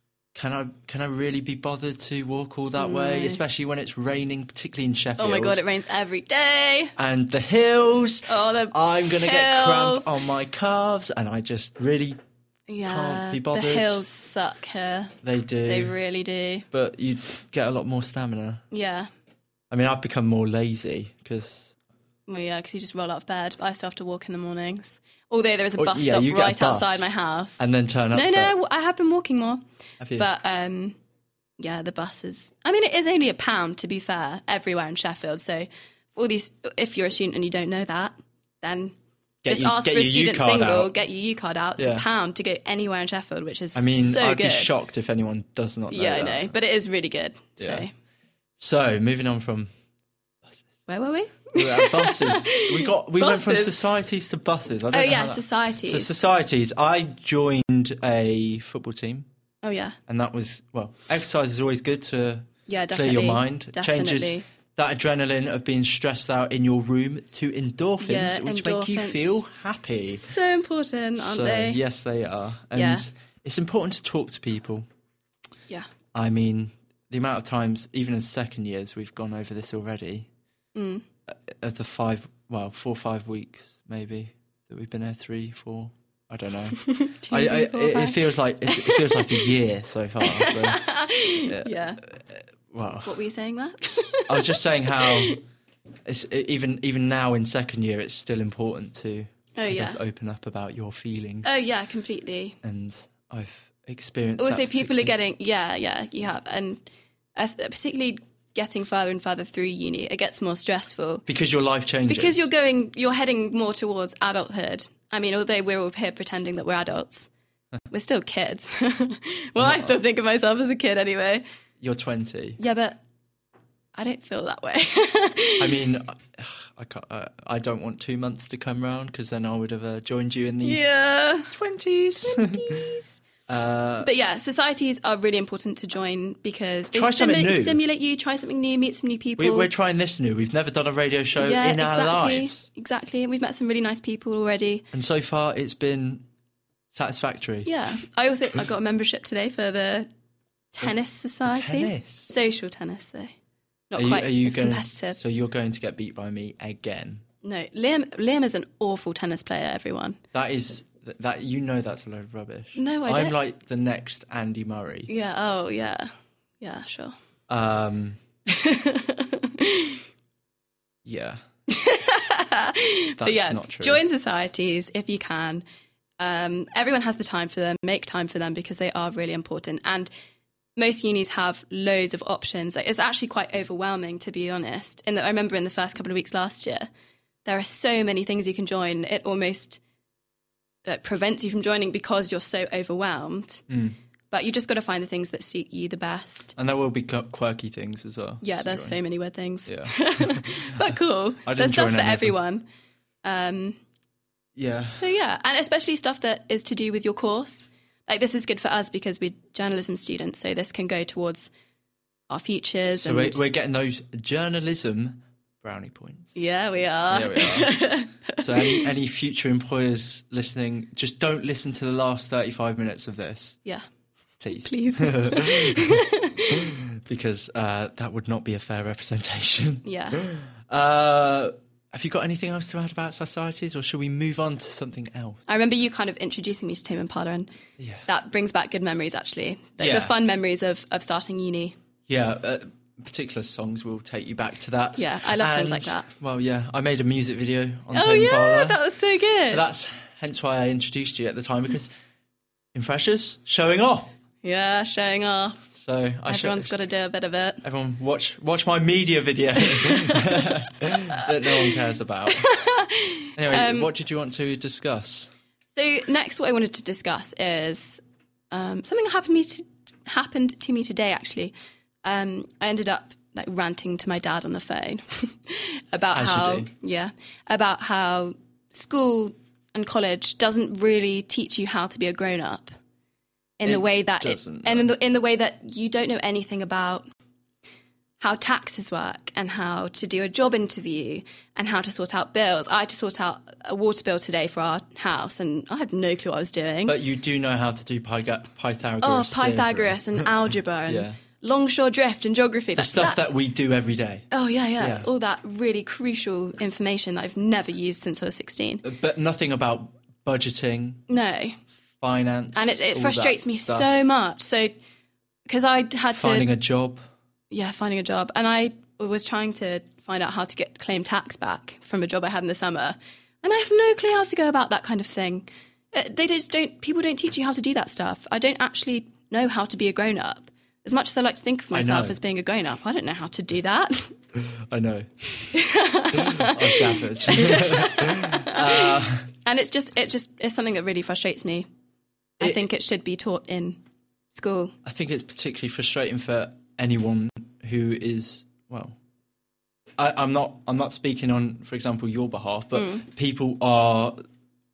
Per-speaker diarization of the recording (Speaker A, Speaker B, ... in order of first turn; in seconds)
Speaker A: 0.3-5.6, 7.0-12.2, 12.8-14.0, 15.2-15.9, 16.7-18.6, 19.7-21.7, 25.8-28.5, 30.0-30.3, 39.4-40.9, 41.8-42.0, 43.7-46.5, 47.6-47.8, 48.6-49.7, 51.5-59.3, 60.1-70.3, 71.2-74.8, 76.1-80.3, 81.3-90.9, 91.4-93.2, 94.3-95.4, 96.0-101.6, 102.6-105.1, 111.3-112.5, 119.6-120.0, 121.8-122.6, 125.6-130.8, 131.5-132.9, 133.5-134.1, 136.9-137.8, 139.4-142.7, 144.9-146.2, 146.9-147.7, 151.4-152.3, 153.9-157.2, 160.3-165.1, 167.5-168.2, 171.0-171.4, 173.2-174.0, 193.7-193.9, 196.6-199.0, 199.7-202.3, 204.6-205.0, 212.9-216.3, 217.1-217.7, 218.4-223.6, 224.4-226.0, 226.5-235.4, 237.8-238.1, 239.8-240.1, 242.1-248.8, 249.4-251.9, 252.7-254.2, 255.7-256.7, 257.6-262.5, 263.4-265.3, 276.1-276.7, 283.6-284.9, 296.9-300.3, 300.9-301.2, 302.8-304.2, 304.8-305.1, 308.8-311.0, 312.0-313.9, 316.1-317.0, 331.7-332.2, 334.5-335.5, 336.1-339.3, 344.8-348.9, 350.0-354.2
Speaker B: 2.8-3.4, 5.2-6.9, 8.3-10.1, 12.7-16.7, 18.7-19.1, 22.3-29.6, 30.1-31.0, 31.6-38.9, 39.5-44.7, 45.9-47.9, 50.9-53.7, 54.9-56.1, 59.6-60.0, 62.7-64.4, 68.0-69.4, 70.1-71.8, 72.7-73.0, 80.7-81.0, 86.8-89.5, 90.2-92.0, 93.0-95.4, 99.5-100.0, 101.4-102.6, 104.4-106.8, 107.3-111.2, 112.1-117.3, 117.9-121.4, 122.6-123.0, 123.9-125.8, 130.6-131.5, 132.2-133.2, 134.0-139.7, 141.4-144.8, 147.6-150.1, 150.7-153.3, 153.9-155.2, 157.4-160.2, 162.8-163.3, 165.1-166.1, 166.6-167.1, 168.5-170.0, 171.7-175.6, 176.2-180.1, 180.8-186.9, 187.4-189.8, 190.8-193.7, 194.3-196.5, 198.4-202.6, 203.2-203.8, 204.9-211.5, 212.3-213.4, 216.3-218.9, 224.5-226.7, 229.8-230.2, 235.5-237.5, 238.1-241.7, 245.0-246.1, 247.9-249.7, 254.4-255.6, 256.3-257.6, 259.8-260.4, 261.0-261.8, 262.3-263.9, 265.7-271.5, 272.0-282.7, 283.6-287.1, 288.2-297.0, 299.0-303.2, 304.3-308.8, 311.1-311.6, 312.5-314.7, 315.5-316.5, 317.5-334.1, 335.5-341.7, 342.4-343.8, 344.3-344.7, 352.7-353.0